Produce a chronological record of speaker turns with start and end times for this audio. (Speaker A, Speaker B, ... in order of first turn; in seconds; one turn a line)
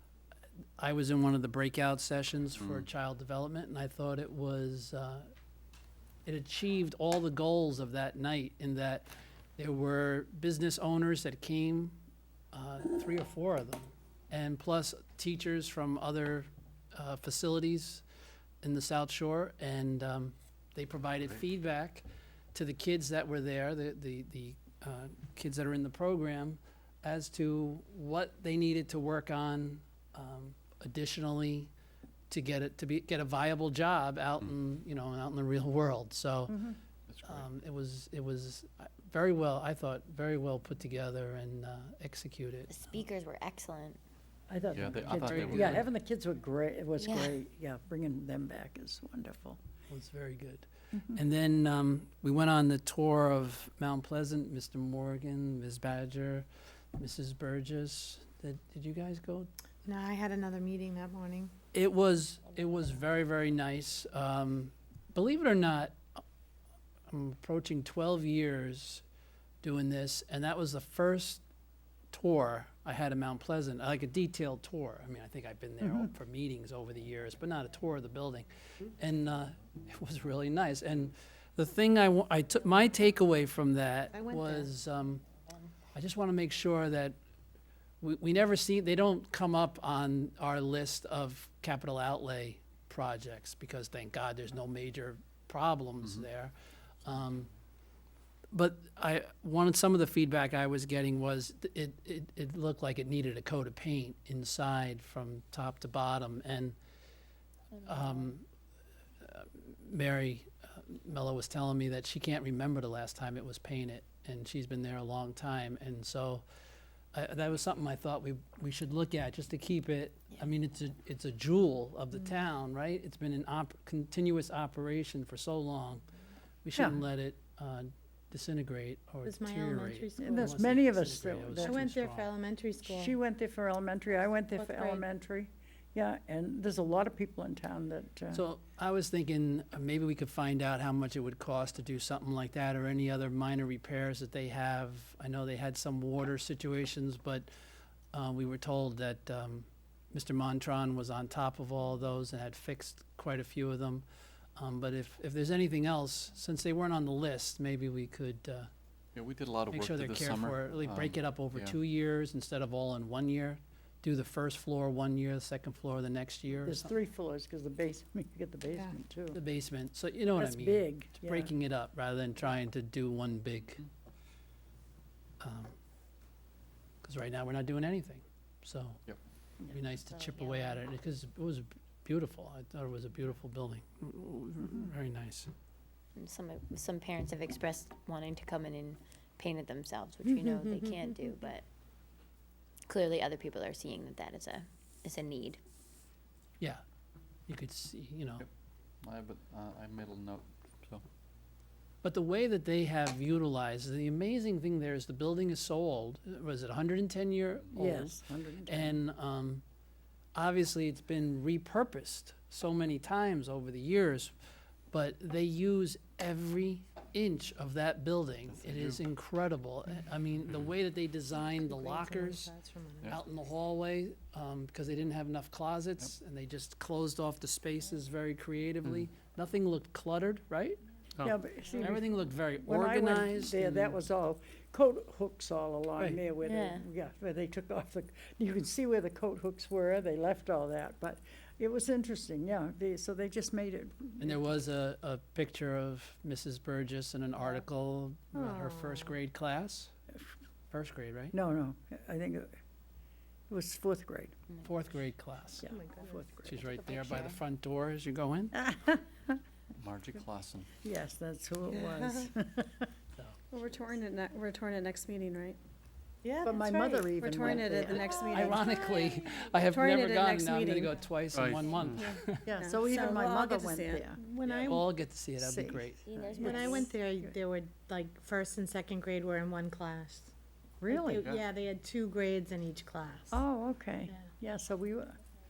Speaker A: 0.8-5.3
Speaker B: 2.6-2.9
Speaker A: 6.2-11.9
Speaker A: 12.5-18.0
Speaker A: 18.6-31.7
Speaker A: 32.3-36.6
Speaker C: 36.5-36.8
Speaker B: 37.1-37.5
Speaker A: 37.2-42.7
Speaker D: 42.7-44.0
Speaker C: 44.5-49.6
Speaker B: 44.7-45.8
Speaker A: 45.1-45.8
Speaker D: 47.0-47.4
Speaker A: 49.9-59.5
Speaker E: 59.8-61.5
Speaker A: 61.7-66.0
Speaker A: 67.1-69.0
Speaker A: 69.6-71.4
Speaker A: 72.1-85.2
Speaker E: 84.1-84.7
Speaker A: 85.9-87.2
Speaker A: 88.0-96.5
Speaker A: 97.0-97.5
Speaker A: 98.5-106.8
Speaker D: 107.8-108.3
Speaker A: 107.8-108.4
Speaker A: 109.2-116.4
Speaker A: 117.1-126.0
Speaker A: 126.6-132.3
Speaker E: 129.2-130.6
Speaker C: 130.2-131.8
Speaker E: 131.6-133.1
Speaker C: 132.8-138.4
Speaker E: 134.5-135.0
Speaker A: 138.3-147.5
Speaker A: 148.1-154.0
Speaker A: 154.6-158.7
Speaker B: 159.1-161.8
Speaker A: 159.7-166.9
Speaker C: 166.7-169.4
Speaker A: 169.3-173.8
Speaker C: 170.4-171.5
Speaker A: 175.4-175.8
Speaker A: 177.0-179.0
Speaker A: 179.7-185.5
Speaker D: 180.1-180.8
Speaker D: 186.2-191.6
Speaker D: 192.9-195.6
Speaker A: 197.5-198.4
Speaker B: 199.0-201.0
Speaker A: 202.0-209.6
Speaker C: 207.7-209.0
Speaker A: 210.3-214.3
Speaker A: 214.9-222.5
Speaker B: 218.5-219.0
Speaker E: 221.6-223.1
Speaker A: 223.1-234.0
Speaker C: 231.2-244.4
Speaker D: 236.4-236.8
Speaker A: 244.2-249.9
Speaker E: 248.3-249.2
Speaker A: 250.7-251.3
Speaker C: 251.3-252.6
Speaker C: 253.5-254.3
Speaker A: 254.6-255.7
Speaker C: 255.6-256.6
Speaker E: 255.7-256.2
Speaker A: 256.4-258.5
Speaker D: 256.6-257.4
Speaker C: 258.5-259.4
Speaker B: 259.8-260.7
Speaker C: 260.8-262.9
Speaker F: 261.8-262.3
Speaker F: 263.5-265.6
Speaker E: 266.2-268.6
Speaker C: 266.4-268.2
Speaker F: 267.2-271.0
Speaker A: 268.3-272.5
Speaker B: 271.3-272.0
Speaker D: 271.8-272.2
Speaker C: 272.4-274.2
Speaker F: 272.5-274.1
Speaker E: 274.2-274.9
Speaker A: 274.6-276.0
Speaker C: 275.4-277.3
Speaker D: 276.1-276.9
Speaker E: 276.4-280.3
Speaker C: 280.8-281.3
Speaker E: 280.9-283.4
Speaker B: 281.1-281.4
Speaker C: 283.3-285.2